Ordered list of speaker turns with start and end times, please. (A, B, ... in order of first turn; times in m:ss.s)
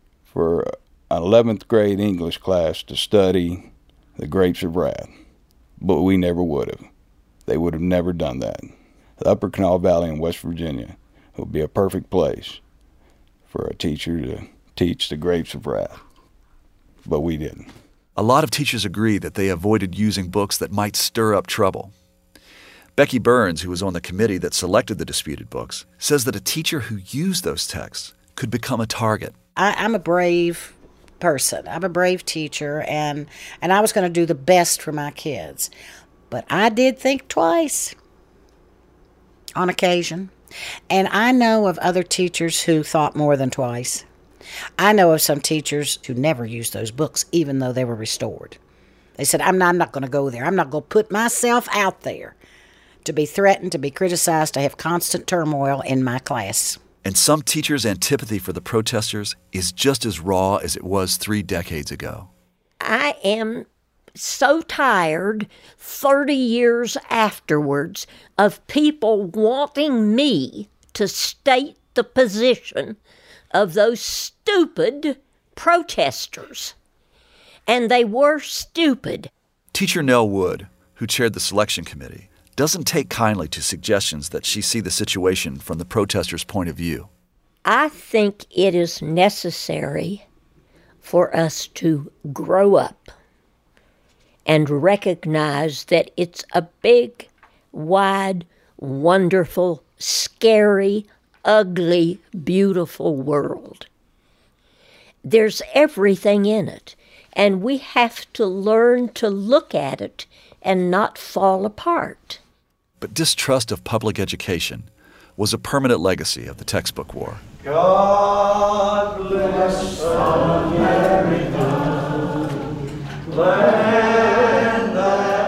0:00.3-0:05.1 A
0:05.8-0:06.8 A
0:07.4-0:12.6 A
0:13.5-0:16.0 A
0:17.0-0:17.7 A
0:18.2-0:21.9 B
0:23.0-0:29.3 B
0:29.6-0:35.7 C
0:36.3-0:37.9 C
0:39.6-0:40.3 C
0:40.9-0:44.0 C
0:44.8-0:48.6 C
0:49.2-0:52.4 C
0:53.0-0:56.8 C
0:57.0-1:02.3 B
1:02.8-1:03.6 D
1:04.2-1:13.0 D
1:13.5-1:16.7 D
1:17.7-1:19.3 D
1:19.7-1:27.1 B
1:27.6-1:30.2 D
1:31.0-1:33.1 D
1:34.5-1:43.9 D
1:45.2-1:52.4 D
1:53.0-1:57.4 B
1:57.6-1:59.9 E
2:03.7-2:04.7 E